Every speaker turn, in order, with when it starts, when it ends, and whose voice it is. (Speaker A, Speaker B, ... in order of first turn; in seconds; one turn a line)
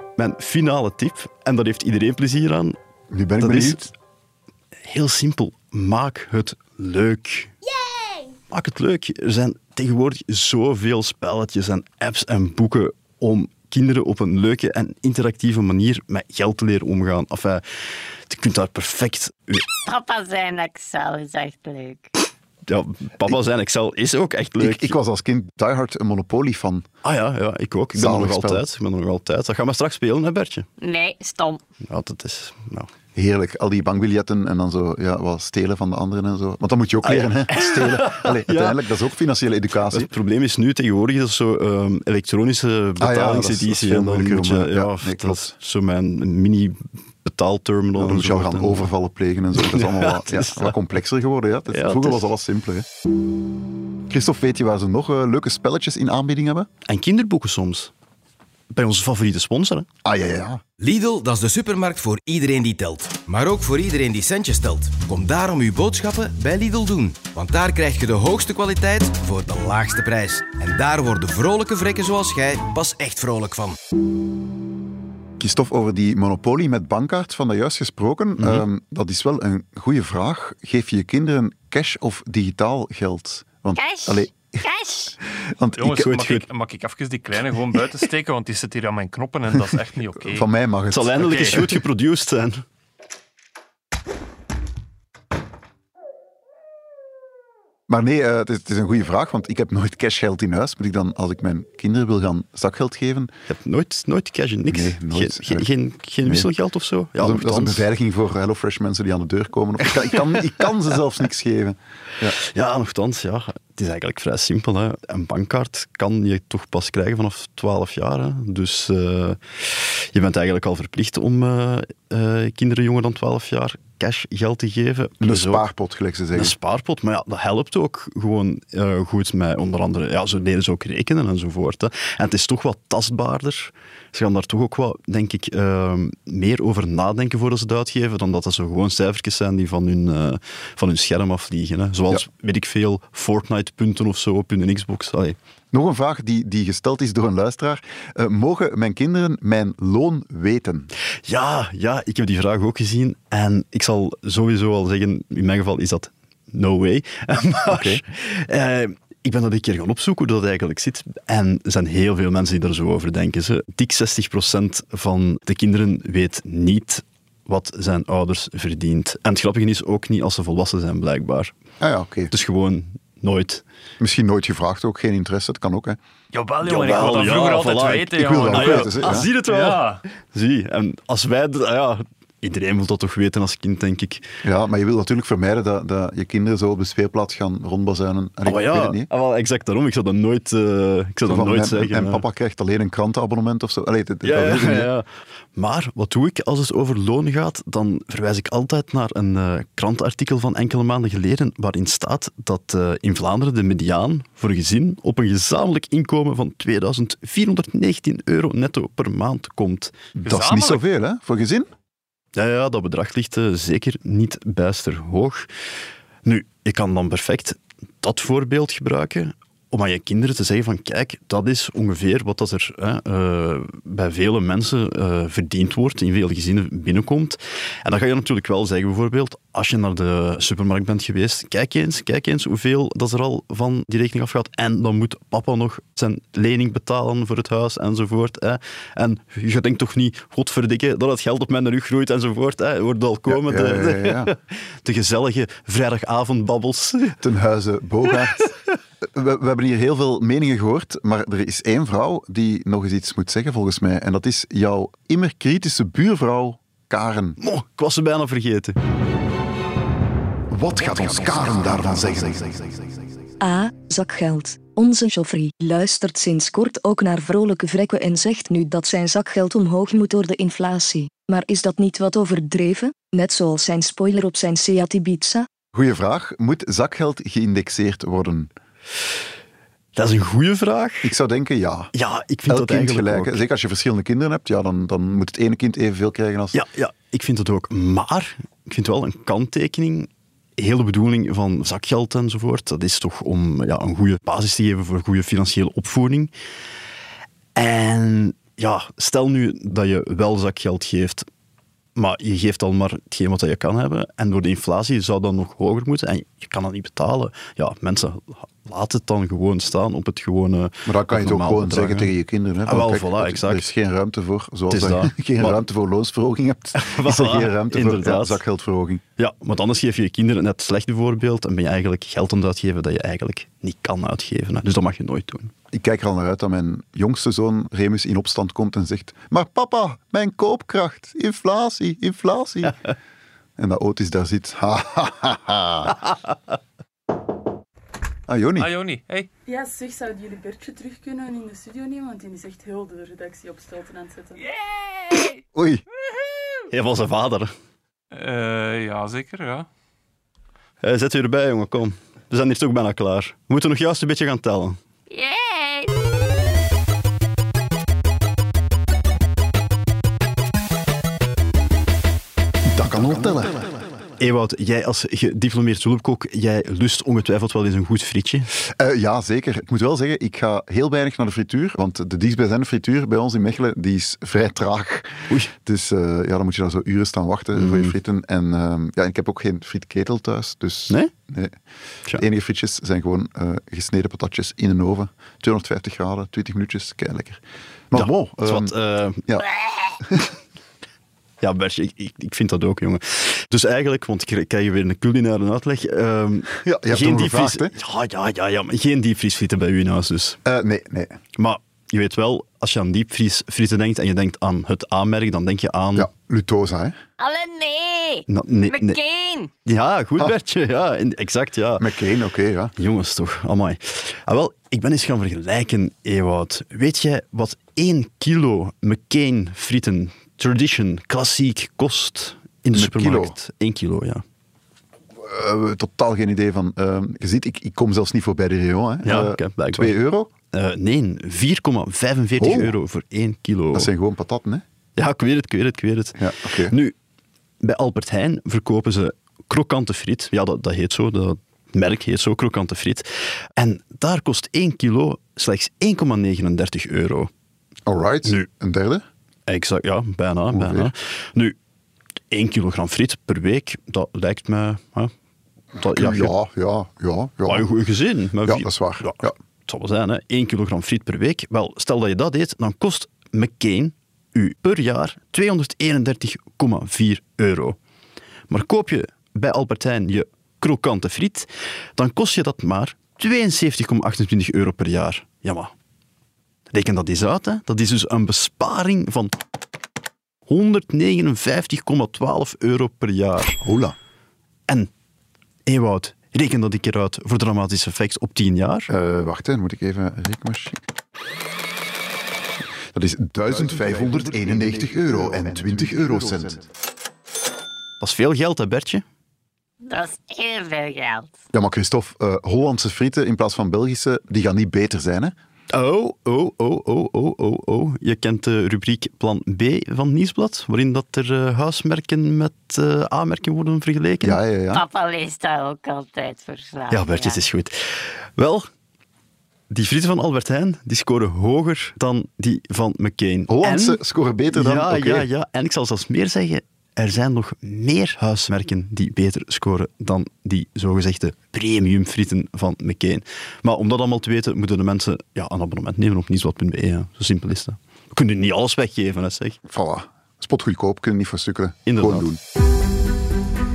Speaker A: 0.2-2.8
Speaker B: 3.1-3.9
Speaker A: 3.4-3.8
Speaker A: 4.8-7.5
Speaker A: 8.5-17.6
Speaker A: 18.3-19.6
Speaker C: 19.9-22.1
Speaker A: 22.6-25.0
Speaker B: 24.6-26.9
Speaker A: 27.0-30.6
Speaker B: 27.9-28.6
Speaker C: 30.8-31.6
Speaker A: 31.9-32.9
Speaker B: 33.1-40.1
Speaker A: 37.0-38.8
Speaker A: 39.9-48.9
Speaker B: 43.0-45.5
Speaker B: 48.0-52.9
Speaker A: 49.6-50.8
Speaker A: 51.7-52.2
Speaker B: 54.1-56.7
Speaker A: 56.9-57.9
Speaker A: 58.7-59.9
Speaker B: 60.0-60.6
Speaker D: 60.8-73.8
Speaker B: 75.4-84.7
Speaker A: 78.4-78.6
Speaker C: 83.8-85.2
Speaker B: 85.6-86.3
Speaker E: 85.8-90.5
Speaker A: 86.0-86.5
Speaker B: 90.3-91.7
Speaker A: 90.9-92.6
Speaker E: 91.3-91.7
Speaker B: 97.9-103.3
Speaker A: 103.5-107.8
Speaker B: 104.7-105.7
Speaker B: 106.2-106.5
Speaker B: 107.2-112.4
Speaker A: 112.4-125.6
Speaker B: 125.2-126.5
Speaker A: 126.3-145.4
Speaker B: 145.7-150.9
Speaker A: 151.2-171.5
Speaker B: 157.7-158.0
Speaker B: 171.8-172.3
Speaker A: 172.3-173.6
Speaker B: 174.0-176.0
Speaker E: 176.3-180.0
Speaker A: 176.6-184.3
Speaker B: 176.7-177.2
Speaker B: 178.0-179.3
Speaker B: 184.4-189.1
Speaker A: 188.4-192.2
Speaker B: 191.3-194.9
Speaker A: 194.2-210.0
Speaker B: 210.2-211.7
Speaker E: 210.2-210.8
Speaker A: 212.4-215.5
Speaker A: 216.2-247.2
Speaker B: 243.3-244.3
Speaker B: 247.2-257.4
Speaker A: 257.4-258.8
Speaker B: 260.5-262.7
Speaker F: 263.4-275.5
Speaker B: 275.7-278.5
Speaker A: 279.9-281.1
Speaker B: 281.0-281.9
Speaker A: 281.9-283.4
Speaker B: 282.5-286.6
Speaker A: 286.5-296.3
Speaker A: 297.6-301.3
Speaker A: 301.9-312.1
Speaker B: 310.9-319.0
Speaker A: 312.6-313.6
Speaker A: 314.7-315.6
Speaker A: 316.8-318.4
Speaker A: 319.2-325.5
Speaker B: 325.7-332.8
Speaker B: 333.6-336.1
Speaker B: 338.3-338.7
Speaker E: 338.6-339.3
Speaker G: 339.5-344.5
Speaker B: 345.5-345.8
Speaker A: 346.7-347.5
Speaker E: 348.1-349.7
Speaker A: 350.8-354.8
Speaker C: 355.1-355.9
Speaker B: 362.7-363.7
Speaker A: 364.2-368.5
Speaker B: 368.7-381.6
Speaker A: 377.5-377.9
Speaker B: 382.1-388.7
Speaker A: 387.9-389.2
Speaker B: 390.0-390.3
Speaker A: 391.4-400.4
Speaker B: 396.5-397.7
Speaker B: 400.4-401.2
Speaker A: 401.4-406.1
Speaker B: 405.9-407.0
Speaker C: 407.2-409.5
Speaker A: 408.3-409.0
Speaker A: 409.6-411.9
Speaker B: 411.8-412.7
Speaker A: 412.8-424.2
Speaker B: 422.7-423.4
Speaker B: 425.2-430.3
Speaker A: 429.0-430.0
Speaker A: 430.5-433.9
Speaker B: 432.4-432.8
Speaker B: 433.7-434.6
Speaker A: 435.0-436.9
Speaker B: 436.2-436.8
Speaker A: 437.6-447.3
Speaker B: 447.9-449.1
Speaker A: 449.5-451.6
Speaker B: 450.5-450.9
Speaker A: 452.3-455.1
Speaker A: 455.8-456.3
Speaker B: 455.8-457.7
Speaker A: 457.4-467.8
Speaker B: 458.4-459.4
Speaker A: 468.5-475.7
Speaker A: 476.7-479.4
Speaker A: 480.5-483.6
Speaker B: 483.6-483.9
Speaker A: 485.6-488.9
Speaker B: 488.9-490.8
Speaker B: 492.9-496.6
Speaker A: 498.0-499.0
Speaker C: 499.8-501.4
Speaker B: 501.5-505.4
Speaker A: 505.7-514.4
Speaker B: 514.2-514.8
Speaker C: 514.7-517.4
Speaker A: 516.9-518.7
Speaker A: 519.7-524.0
Speaker B: 523.5-525.3
Speaker A: 524.5-539.6
Speaker B: 539.6-542.4
Speaker A: 541.9-542.3